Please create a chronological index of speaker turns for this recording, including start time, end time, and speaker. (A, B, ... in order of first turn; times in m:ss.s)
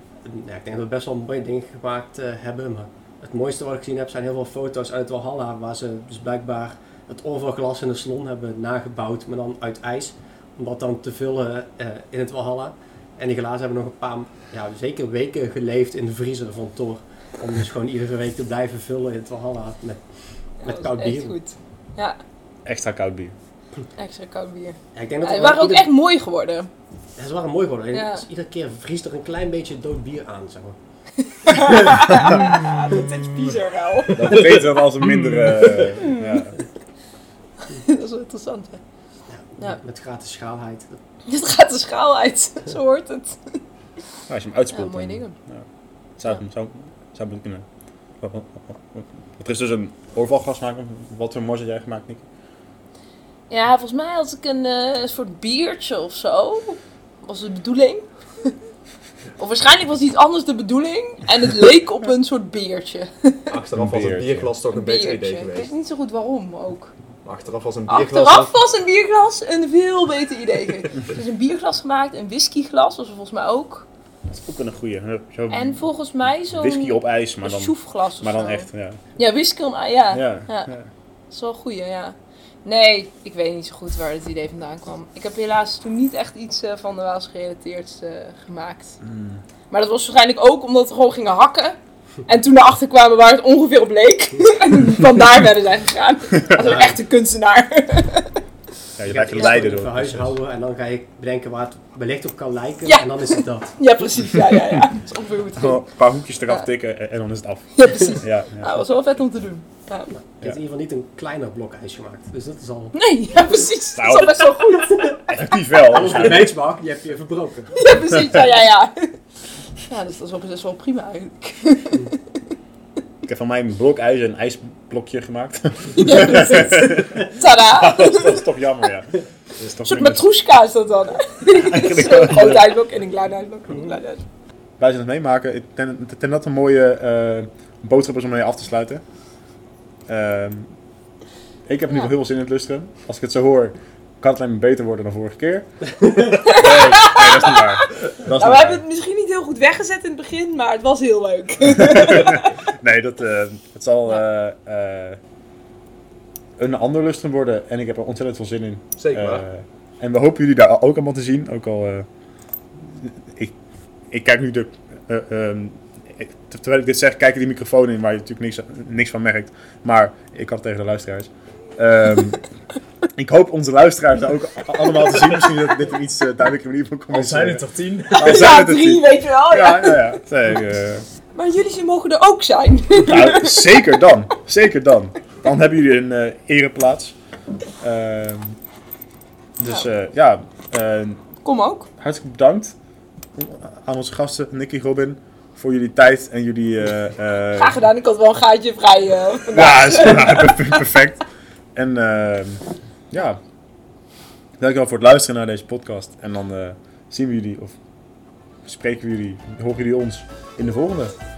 0:00.2-0:20.0 A
0:20.6-0:21.4 A
0:20.6-0:22.2 B
0:22.6-0:23.3 C
0:24.0-0:26.7 B
0:24.9-0:25.9 A
0:27.2-0:30.8 A
0:27.9-0:28.2 B
0:31.2-0:34.6 B
0:34.2-0:36.6 C
0:34.2-0:35.9 D
0:35.9-0:36.5 B
0:37.6-0:38.8 B
0:39.3-0:41.0 A
0:41.2-0:43.6 B
0:44.3-0:45.6 C
0:44.7-0:45.4 B
0:46.2-0:47.6 C
0:48.2-0:52.2 C
0:53.5-0:58.5 B
0:59.4-1:03.4 B
1:03.5-1:05.7 D
1:03.7-1:04.5 C
1:04.7-1:06.9 B
1:07.2-1:08.5 D
1:07.9-1:13.9 B
1:14.3-1:15.8 C
1:15.5-1:20.7 B
1:16.5-1:19.0 C
1:20.1-1:20.9 C
1:21.3-1:29.0 B
1:29.0-1:29.4 C
1:29.7-1:31.8 B
1:32.3-1:38.4 B
1:36.4-1:36.9 C
1:36.6-1:37.0 A
1:39.0-1:40.4 C
1:39.0-1:43.7 A
1:42.9-1:45.9 B
1:45.6-1:48.8 C
1:47.8-1:50.1 B
1:50.1-1:52.9 A
1:52.9-1:55.3 B
1:53.9-1:54.6 C
1:54.8-1:55.2 A
1:55.3-1:56.6 C
1:55.7-1:57.9 A
1:57.7-1:59.1 B
1:58.1-1:58.4 C
1:59.9-2:02.2 B
2:03.2-2:10.2 C
2:05.9-2:08.4 B
2:09.8-2:14.2 B
2:11.5-2:12.7 C
2:14.8-2:19.0 C
2:20.1-2:20.7 C
2:21.7-2:25.7 C
2:26.4-2:32.6 B
2:26.4-2:28.8 C
2:31.6-2:35.2 C
2:36.6-2:42.0 C
2:39.0-2:39.4 D
2:42.8-2:43.5 C
2:44.1-2:52.4 C
2:53.2-3:01.0 C
2:57.1-2:58.4 D
2:58.1-3:00.1 B
3:01.3-3:03.6 B
3:03.0-3:07.1 C
3:07.8-3:08.6 C
3:09.6-3:11.2 C
3:11.4-3:11.9 B
3:12.0-3:12.7 C
3:13.4-3:17.8 C
3:17.6-3:20.8 B
3:19.5-3:21.2 C
3:21.7-3:23.4 C
3:24.6-3:27.8 C
3:28.6-3:31.1 C